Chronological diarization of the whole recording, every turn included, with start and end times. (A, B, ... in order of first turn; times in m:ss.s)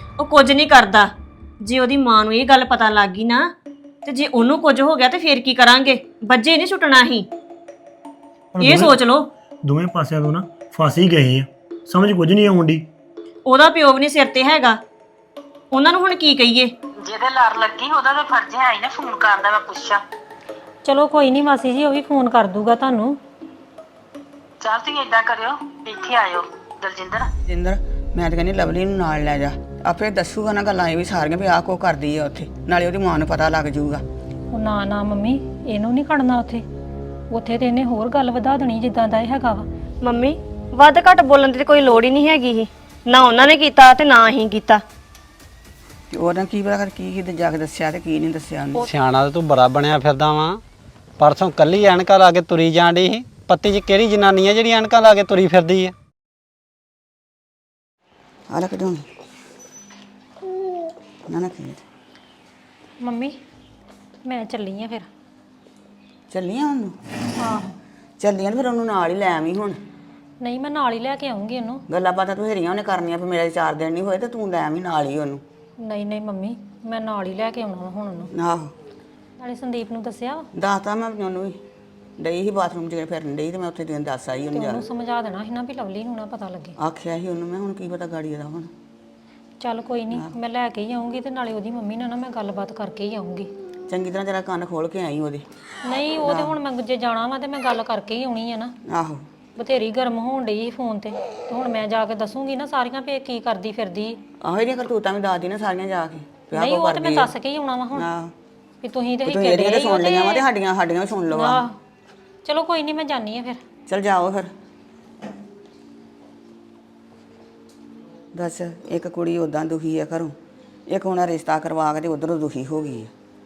0:00.2-0:03.5 A
0:04.0-0:07.3 A
0:08.5-0:09.0 B
0:08.6-0:09.3 A
0:09.6-0:12.8 B
0:13.4-0:14.8 A
0:15.7-0:16.7 A
0:17.0-0:20.0 C
0:20.8-0:23.2 D
0:24.6-0:27.3 C
0:27.5-0:34.0 E
0:34.5-0:36.6 D
0:37.3-0:39.7 D
0:40.0-0:44.8 A
0:46.1-0:48.9 E
0:48.8-0:50.6 F
0:51.2-0:55.9 F
0:58.5-0:59.0 E
1:01.3-1:01.8 E
1:03.0-1:03.4 D
1:04.2-1:05.1 D
1:06.3-1:07.0 E
1:08.2-1:09.8 E
1:10.4-1:11.8 D
1:11.9-1:15.4 E
1:15.8-1:18.3 D
1:18.3-1:18.7 E
1:19.4-1:20.5 D
1:20.5-1:21.6 E
1:22.2-1:24.8 E
1:24.5-1:26.8 D
1:26.8-1:28.7 E
1:29.6-1:33.5 D
1:33.9-1:35.4 E
1:35.8-1:38.8 D
1:36.2-1:36.5 E
1:38.8-1:39.2 E
1:39.6-1:44.2 D
1:44.4-1:47.3 E
1:46.5-1:48.1 D
1:47.9-1:48.3 E
1:48.8-1:50.4 D
1:49.2-1:51.6 E
1:51.3-1:51.8 D
1:52.4-1:53.6 D
1:53.9-1:54.5 E
1:58.3-2:00.3 E
2:00.9-2:03.1 E